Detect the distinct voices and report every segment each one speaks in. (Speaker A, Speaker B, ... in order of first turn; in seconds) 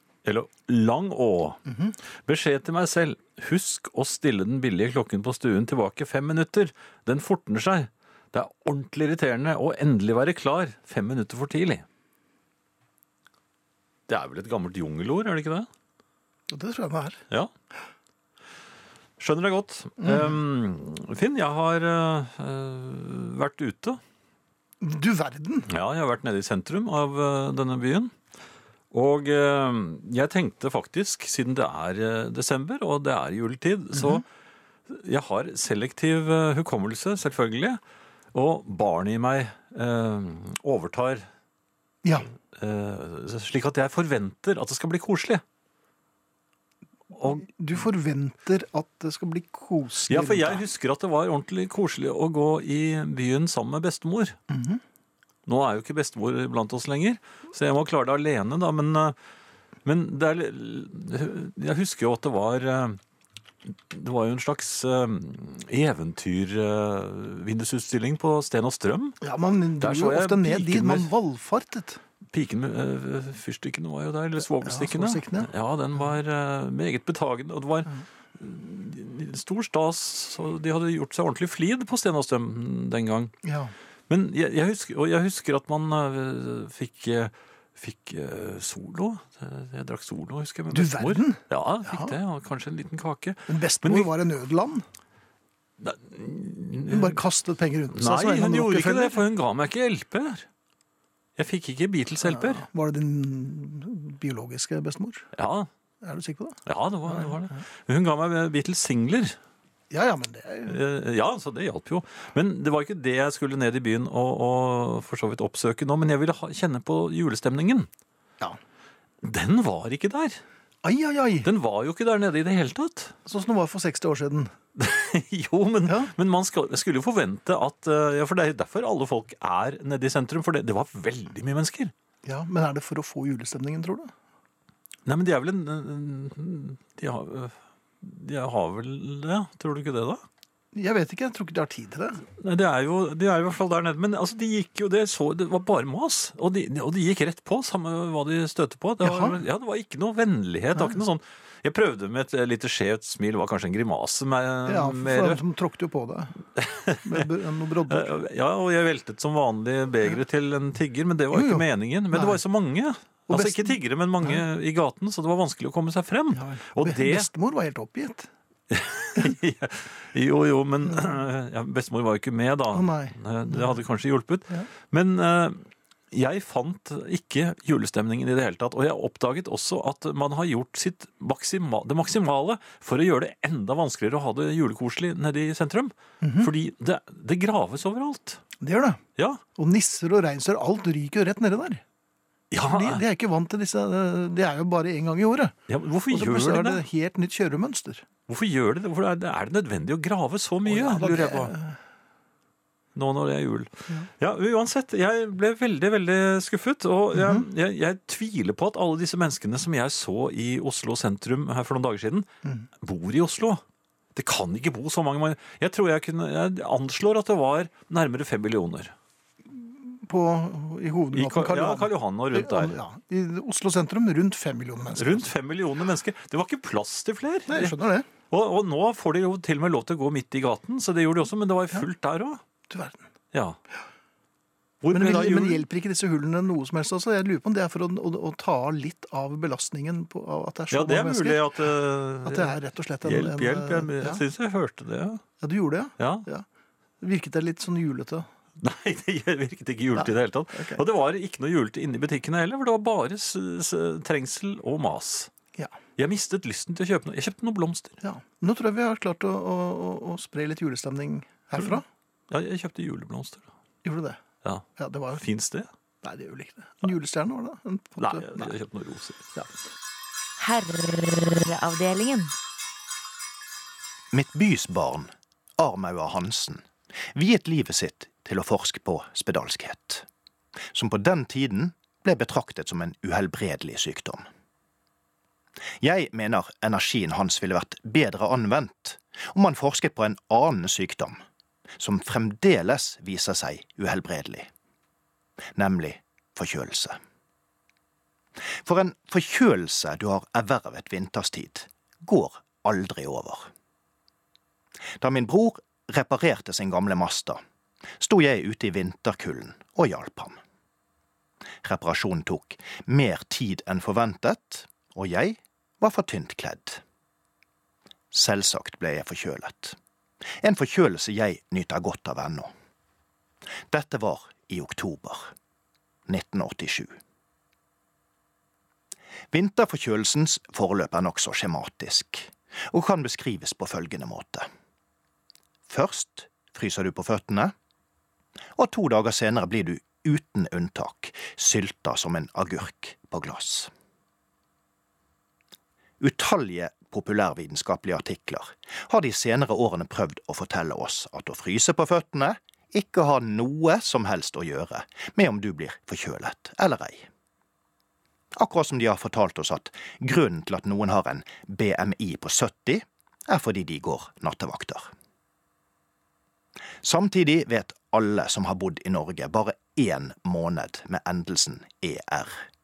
Speaker A: 0.2-1.6, 2.2-11.8, 14.1-15.7, 19.2-24.0, 25.7-28.1, 28.9-34.2, 34.9-37.8, 38.3-41.2, 42.5-45.4, 47.2-47.4, 50.1-54.4, 55.5-59.1, 59.8-63.0, 63.9-69.2, 69.8-71.1, 72.3-83.3, 84.1-94.1, 95.8-97.2, 97.9-100.5, 101.4-102.6, 105.3-105.7, 106.7-109.3, 110.7-117.9, 119.2-120.4, 121.4-123.1, 124.8-131.9, 135.1-140.2, 142.4-155.4, 156.6-157.3, 157.9-167.3, 168.7-188.4, 192.5-193.0, 195.7-196.8, 198.3-201.5, 202.9-212.3, 212.8-213.6, 214.1-218.9, 221.1-222.8, 224.9-227.8, 228.3-232.4, 234.8-235.6, 240.7-245.2, 246.0-246.2, 248.6-255.3, 256.0-258.0, 261.6-263.5, 265.1-265.7, 268.0-269.2
Speaker B: 1.7-1.9, 16.5-17.2, 20.0-20.4, 24.8-25.7, 33.9-34.2, 42.0-42.3, 47.1-50.6, 54.5-54.8, 69.2-72.0, 74.5-75.5, 83.4-83.7, 90.7-92.2, 93.5-94.8, 96.9-99.2, 102.2-105.2, 106.0-107.6, 109.9-110.8, 120.8-121.5, 123.2-124.5, 125.8-126.1, 132.2-134.1, 140.7-142.2, 149.0-149.4, 150.7-151.0, 154.7-156.3, 157.0-158.1, 161.3-162.4, 163.3-164.4, 166.3-168.3, 170.8-171.2, 172.7-173.8, 186.2-186.5, 188.6-189.0, 189.6-191.8, 192.7-195.5, 196.1-198.0, 200.6-201.8, 207.1-207.4, 219.4-225.3, 227.5-228.1, 232.7-233.1, 234.9-241.4, 242.2-244.2, 245.4-246.4, 247.0-248.3, 249.9-250.8, 258.0-261.8, 263.8-264.2, 264.8-265.2, 266.0-268.5
Speaker C: 270.4-272.3
Speaker D: 274.1-276.6, 277.1-280.1, 280.7-284.2, 285.8-291.2, 291.8-294.5, 295.5-297.0, 298.6-303.5, 305.0-307.4, 308.0-310.4, 311.6-316.8, 318.1-319.8, 320.4-322.5, 323.7-325.3, 326.1-326.9, 329.3-334.5, 335.7-337.5, 338.6-343.7, 346.0-357.1, 358.3-364.9, 366.8-372.4